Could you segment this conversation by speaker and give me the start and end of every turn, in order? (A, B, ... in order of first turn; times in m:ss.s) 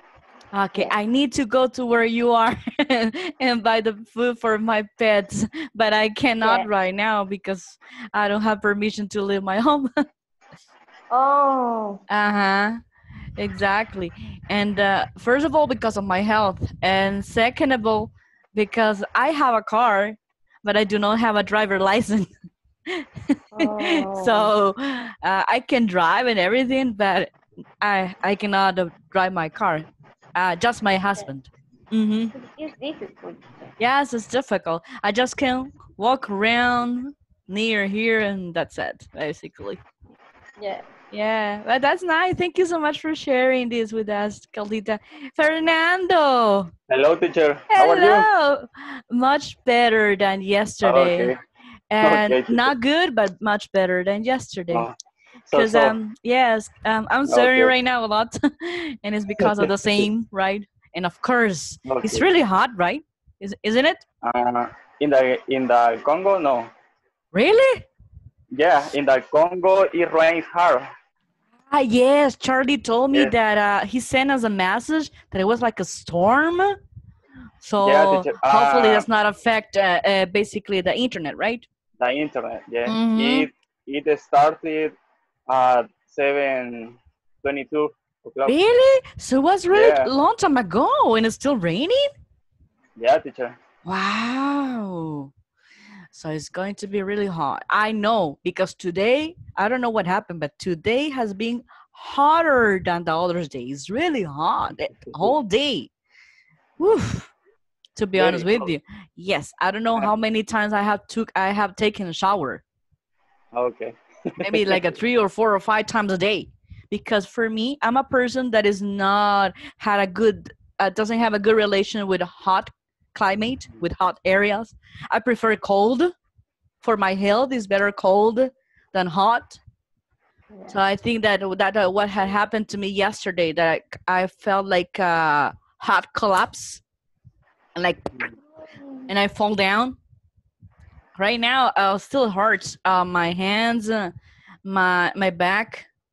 0:00.5-0:09.9 A
0:11.1-0:12.0 B
0:12.1-0:12.8 A
0:13.4-0:22.3 A
0:22.9-0:32.3 A
0:23.5-0:24.5 B
0:32.3-0:33.7 B
0:33.8-0:39.8 A
0:40.6-0:40.9 B
0:41.1-0:46.7 A
0:46.9-0:48.3 C
0:47.7-0:51.3 A
0:50.8-0:51.4 C
0:51.9-0:54.9 A
0:52.0-0:52.7 C
0:55.5-0:55.9 C
0:55.5-1:04.0 A
0:57.3-0:57.7 C
0:59.4-1:00.1 C
1:01.8-1:02.3 C
1:04.2-1:06.7 C
1:07.3-1:07.8 A
1:08.5-1:10.9 C
1:11.7-1:16.8 A
1:17.6-1:21.6 A
1:17.8-1:19.0 C
1:22.0-1:24.9 C
1:22.9-1:23.5 A
1:25.5-1:28.5 C
1:28.4-1:32.1 A
1:29.7-1:30.1 C
1:33.0-1:33.6 C
1:33.8-1:35.3 A
1:36.1-1:45.9 A
1:46.8-1:47.3 A
1:48.0-1:52.6 A
1:48.2-1:48.7 C
1:53.5-1:54.8 C
1:54.4-2:06.1 A
2:06.8-2:09.6 A
2:10.7-2:16.8 A
2:17.8-2:18.0 A
2:18.5-2:19.1 B
2:19.1-2:20.0 A
2:21.2-2:24.1 A
2:24.6-2:25.9 A